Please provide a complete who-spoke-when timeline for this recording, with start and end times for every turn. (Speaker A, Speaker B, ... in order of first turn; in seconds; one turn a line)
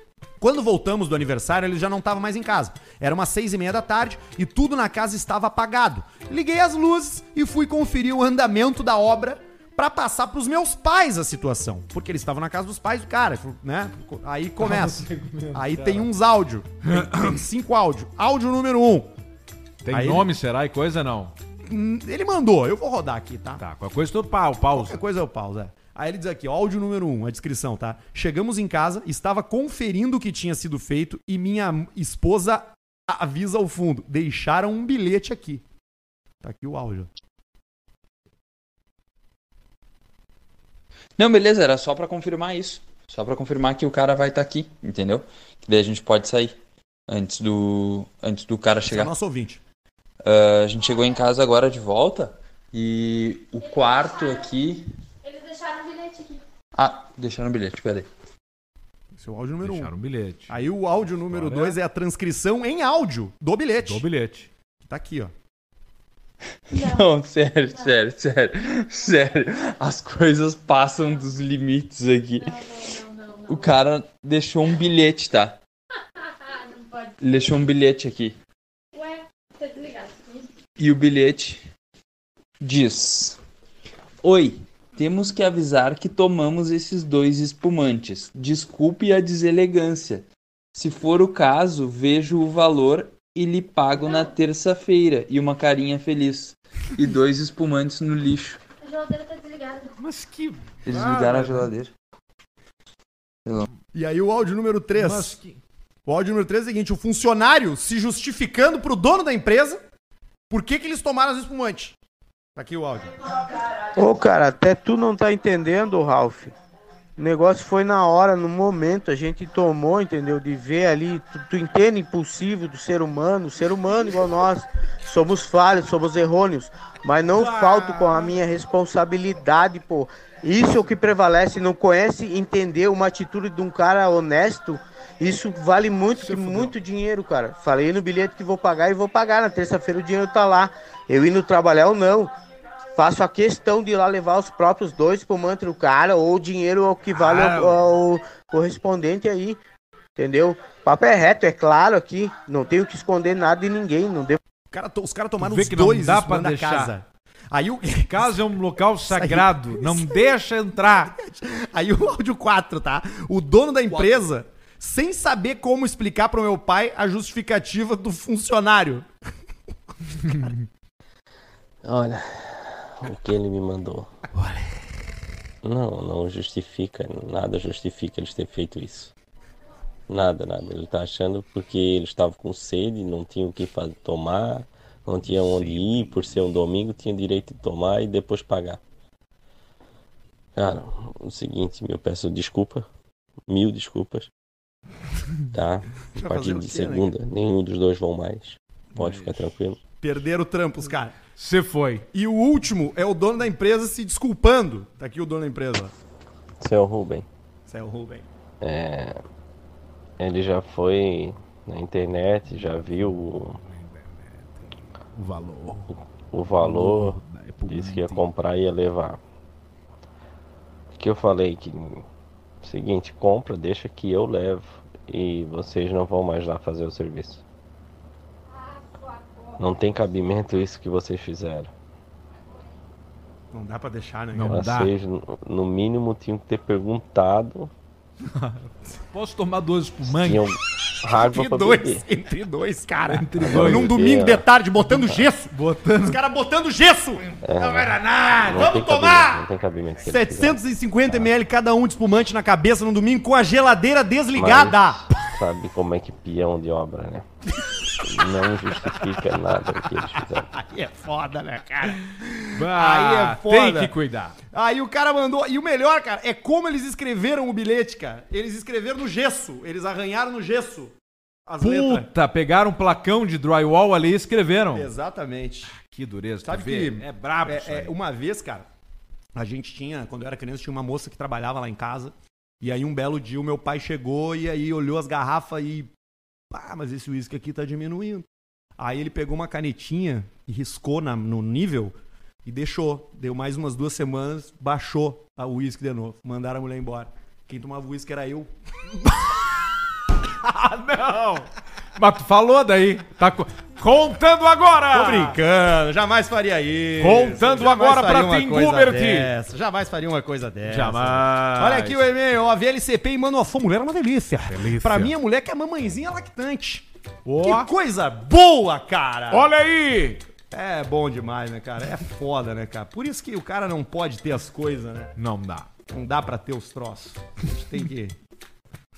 Speaker A: 0.4-19.1
Speaker B: 14.6-16.1
Speaker B: 16.8-17.4
Speaker B: 19.8-21.4
Speaker A: 19.9-20.3
Speaker A: 21.7-23.6
Speaker B: 23.6-25.0
Speaker A: 24.7-35.6
Speaker A: 36.4-37.1
Speaker C: 41.2-46.6
Speaker C: 47.1-49.1
Speaker A: 48.8-49.6
Speaker C: 50.2-54.9
Speaker D: 55.6-56.2
Speaker C: 56.7-58.1
Speaker A: 59.2-59.9
Speaker B: 59.6-61.8
Speaker A: 60.5-64.0
Speaker B: 63.8-64.5
Speaker A: 64.9-65.3
Speaker C: 66.7-72.7
Speaker C: 73.4-75.6
Speaker C: 77.2-78.4
Speaker D: 79.6-80.2
Speaker C: 80.8-81.6
Speaker C: 82.6-83.4
Speaker C: 84.2-98.6
Speaker D: 99.0-99.8
Speaker B: 100.0-101.7
Speaker C: 100.8-101.9
Speaker A: 103.9-105.4
Speaker B: 104.9-105.6
Speaker A: 106.1-109.8
Speaker A: 110.5-112.0
Speaker A: 112.6-113.1
Speaker E: 114.0-116.5
Speaker E: 117.2-142.3
Speaker B: 127.3-128.4
Speaker B: 136.2-136.7
Speaker E: 142.9-149.6
Speaker B: 147.1-147.8
Speaker E: 150.2-154.4
Speaker A: 154.7-158.4
Speaker B: 155.4-156.9
Speaker B: 158.1-161.2
Speaker A: 159.1-160.3
Speaker A: 161.1-169.1
Speaker A: 170.2-170.5
Speaker B: 170.2-170.5
Speaker F: 171.8-174.1
Speaker F: 175.6-179.1
Speaker F: 180.1-188.8
Speaker F: 190.6-192.9
Speaker F: 193.5-194.3
Speaker F: 195.5-199.8
Speaker A: 196.1-197.1
Speaker B: 198.9-199.6
Speaker A: 200.0-201.2
Speaker B: 201.4-202.1
Speaker A: 202.1-205.9
Speaker F: 206.6-207.3
Speaker A: 207.7-208.2
Speaker F: 208.6-209.2
Speaker F: 210.2-213.6
Speaker B: 213.6-215.9
Speaker F: 216.3-219.2
Speaker B: 216.6-218.3
Speaker F: 220.9-222.1
Speaker F: 222.6-227.4
Speaker F: 229.6-231.7
Speaker A: 233.5-234.6
Speaker B: 234.3-234.9
Speaker F: 234.5-237.7
Speaker B: 238.2-240.6
Speaker F: 240.1-242.1
Speaker A: 241.0-247.4
Speaker B: 243.1-244.0
Speaker F: 243.4-244.5
Speaker B: 245.5-246.2
Speaker F: 247.4-251.3
Speaker B: 247.6-248.5
Speaker A: 248.2-249.4
Speaker A: 250.1-255.0
Speaker F: 254.3-257.2
Speaker F: 258.0-260.5
Speaker A: 260.5-263.9
Speaker B: 262.5-264.4
Speaker A: 264.5-270.9
Speaker A: 271.5-272.1
Speaker B: 271.6-274.9
Speaker A: 274.7-275.8
Speaker B: 275.7-278.0
Speaker A: 276.4-278.7
Speaker A: 279.4-285.9
Speaker A: 286.5-288.3
Speaker A: 288.8-291.9
Speaker A: 292.4-298.5
Speaker B: 300.4-305.4
Speaker A: 304.9-316.9
Speaker B: 307.0-309.3
Speaker B: 310.6-312.1
Speaker B: 314.5-315.1
Speaker B: 317.2-317.7
Speaker A: 317.4-319.5
Speaker B: 319.3-320.2
Speaker A: 320.5-325.1
Speaker B: 325.2-325.7
Speaker A: 325.9-328.2